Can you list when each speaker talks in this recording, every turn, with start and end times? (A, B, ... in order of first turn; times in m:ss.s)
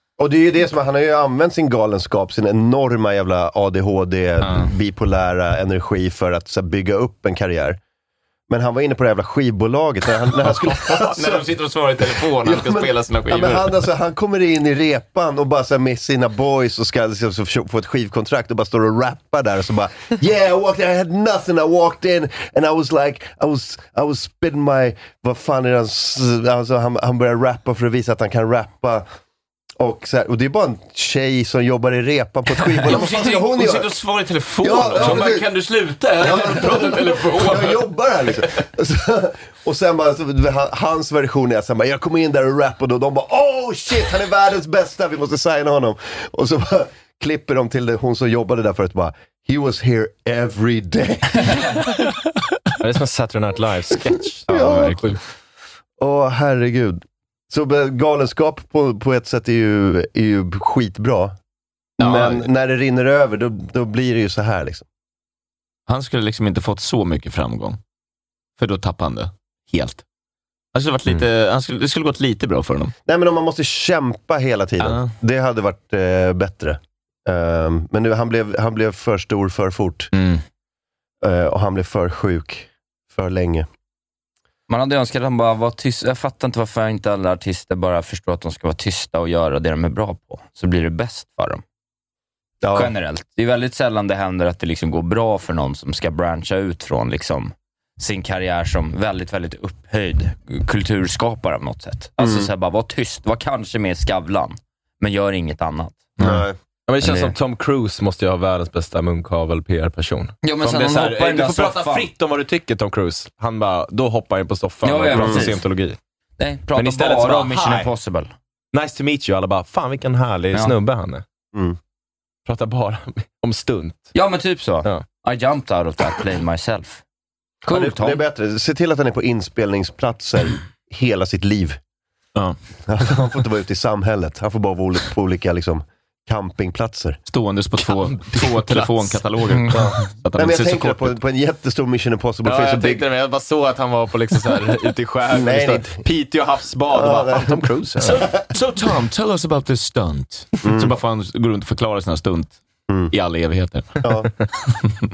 0:00.2-0:07.8 A
0:04.4-0:04.7 B
0:08.5-0:11.5 A
0:10.8-0:13.7 B
0:12.0-0:29.0 A
0:29.8-0:33.9 A
0:32.7-0:37.8 B
0:34.6-0:35.5 A
0:36.2-0:51.7 A
0:52.8-0:55.2 C
0:54.5-0:55.2 A
0:54.5-0:54.8 B
0:56.0-1:01.3 A
1:02.0-1:02.4 B
1:02.0-1:04.8 A
1:05.9-1:07.8 B
1:08.6-1:10.0 B
1:10.7-1:12.9 B
1:13.0-1:20.1 A
1:14.8-1:15.1 B
1:20.1-1:20.4 B
1:21.2-1:23.7 A
1:24.7-1:31.6 D
1:32.6-1:32.9 A
1:32.7-1:46.1 D
1:42.2-1:42.5 A
1:46.2-1:46.6 A
1:46.2-1:56.0 C
1:47.0-1:47.3 D
1:50.4-1:52.1 D
1:54.8-1:55.6 D
1:55.1-1:55.5 A
1:56.4-1:58.3 D
1:56.8-1:57.9 C
1:58.7-2:01.2 C
2:01.5-2:01.8 A
2:02.4-2:04.1 C
2:04.1-2:07.0 D
2:07.6-2:08.2 D
2:07.6-2:11.8 A
2:12.9-2:17.2 A
2:17.3-2:21.1 B
2:17.8-2:19.2 C
2:19.7-2:23.0 A
2:22.4-2:28.3 C
2:25.3-2:26.0 A
2:26.9-2:28.2 A
2:28.0-2:32.6 B
2:30.6-2:30.9 A
2:33.1-2:33.9 B
2:34.0-2:34.3 A